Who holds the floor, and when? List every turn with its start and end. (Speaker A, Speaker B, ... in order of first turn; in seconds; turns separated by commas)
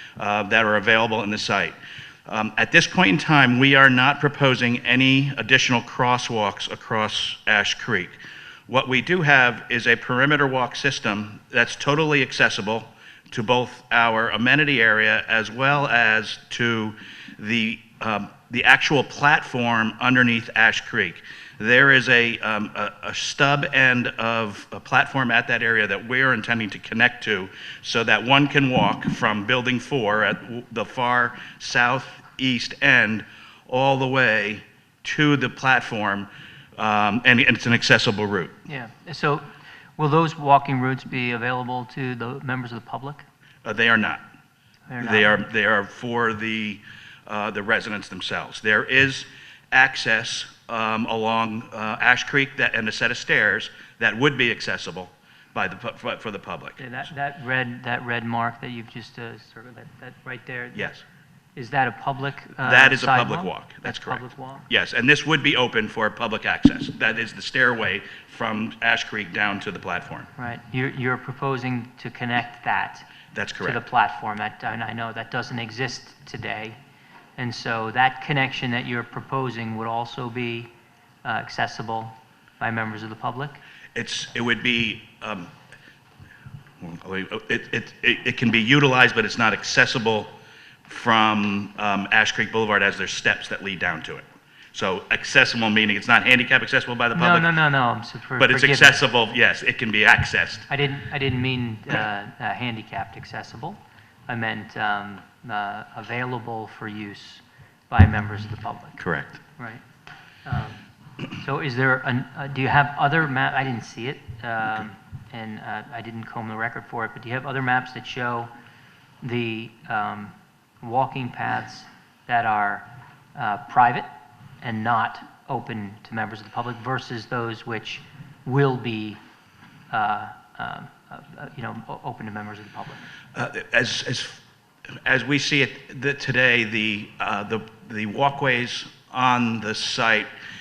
Speaker A: 0.2-38.6, Speaker B: 38.6-43.2, Speaker A: 43.6-44.2, Speaker B: 44.9-45.4, Speaker A: 45.0-56.8, Speaker B: 56.8-60.8, Speaker A: 60.7-61.0, Speaker B: 61.5-64.7, Speaker A: 62.6-70.3, Speaker B: 70.3-73.1, Speaker A: 73.3-73.8, Speaker B: 73.6-76.7, Speaker B: 77.4-80.7, Speaker B: 81.2-83.6, Speaker A: 83.9-85.5, Speaker A: 86.8-90.3, Speaker A: 90.8-97.5, Speaker B: 97.1-99.0, Speaker A: 98.4-100.7, Speaker B: 100.7-109.0, Speaker A: 109.0-109.4, Speaker B: 109.6-109.8, Speaker B: 110.4-110.8, Speaker B: 111.3-118.5, Speaker B: 119.2-124.1, Speaker B: 124.6-129.2, Speaker B: 129.9-133.1, Speaker A: 133.3-134.4, Speaker A: 135.0-140.3